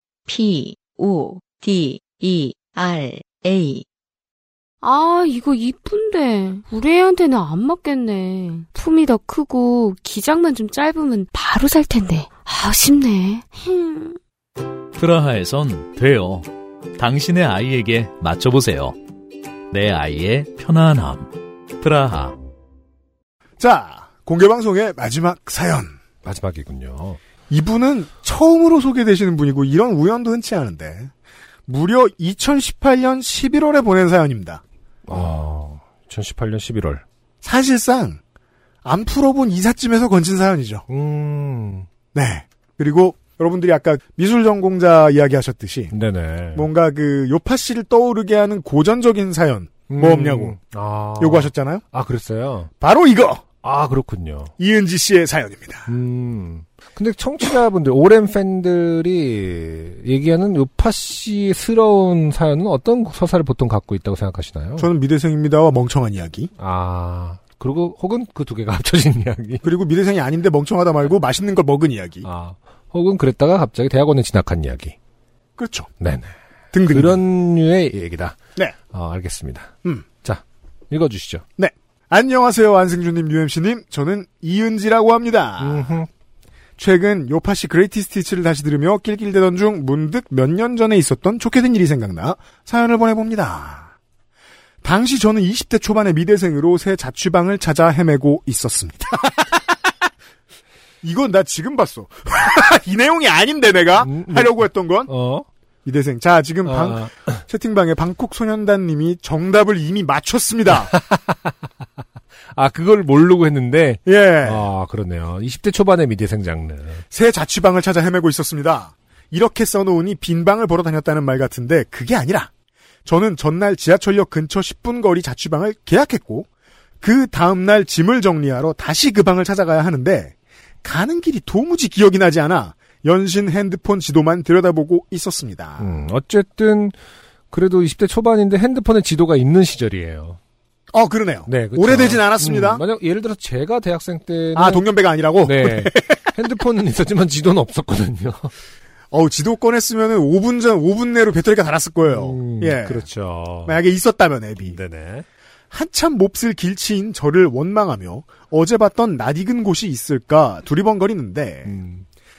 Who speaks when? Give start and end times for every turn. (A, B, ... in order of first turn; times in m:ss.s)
0:00.3-0:03.8 A
0:04.8-0:14.2 B
0:14.9-0:19.0 C
0:19.7-0:22.4 C
0:23.6-0:26.0 D
0:26.2-0:27.2 E
0:27.5-0:31.1 D
0:31.7-0:34.6 D
0:35.1-0:37.0 E
0:37.4-0:38.2 D
0:38.8-0:40.8 D
0:40.9-0:41.9 E
0:42.1-0:45.9 D
0:45.9-0:46.7 E
0:46.5-0:50.6 D
0:49.9-0:52.7 E
0:51.2-0:51.8 D
0:52.8-0:53.4 D
0:53.6-0:54.5 E
0:54.6-0:55.9 D
0:55.9-1:04.9 E
1:04.8-1:06.5 D
1:06.6-1:09.6 E
1:09.6-1:12.3 D
1:12.2-1:14.9 E
1:15.6-1:15.9 D
1:16.0-1:16.3 E
1:16.7-1:17.2 D
1:16.8-1:18.4 E
1:18.9-1:21.4 E
1:21.6-1:26.0 D
1:25.6-1:26.1 E
1:26.8-1:33.9 D
1:34.8-1:39.8 D
1:41.0-1:45.1 D
1:44.0-1:45.5 E
1:45.8-1:50.9 D
1:46.6-1:47.4 E
1:50.7-1:51.5 E
1:52.5-1:57.0 E
1:54.0-1:54.6 D
1:57.1-2:02.5 D
2:03.0-2:06.5 D
2:07.0-2:15.9 D
2:15.8-2:16.9 E
2:17.5-2:20.4 E
2:20.9-2:22.8 D
2:21.5-2:24.8 E
2:24.5-2:26.2 D
2:25.4-2:28.5 E
2:29.1-2:33.1 D
2:32.0-2:33.8 E
2:33.6-2:34.8 D
2:34.6-2:35.2 E
2:35.7-2:41.7 D
2:41.6-2:42.0 E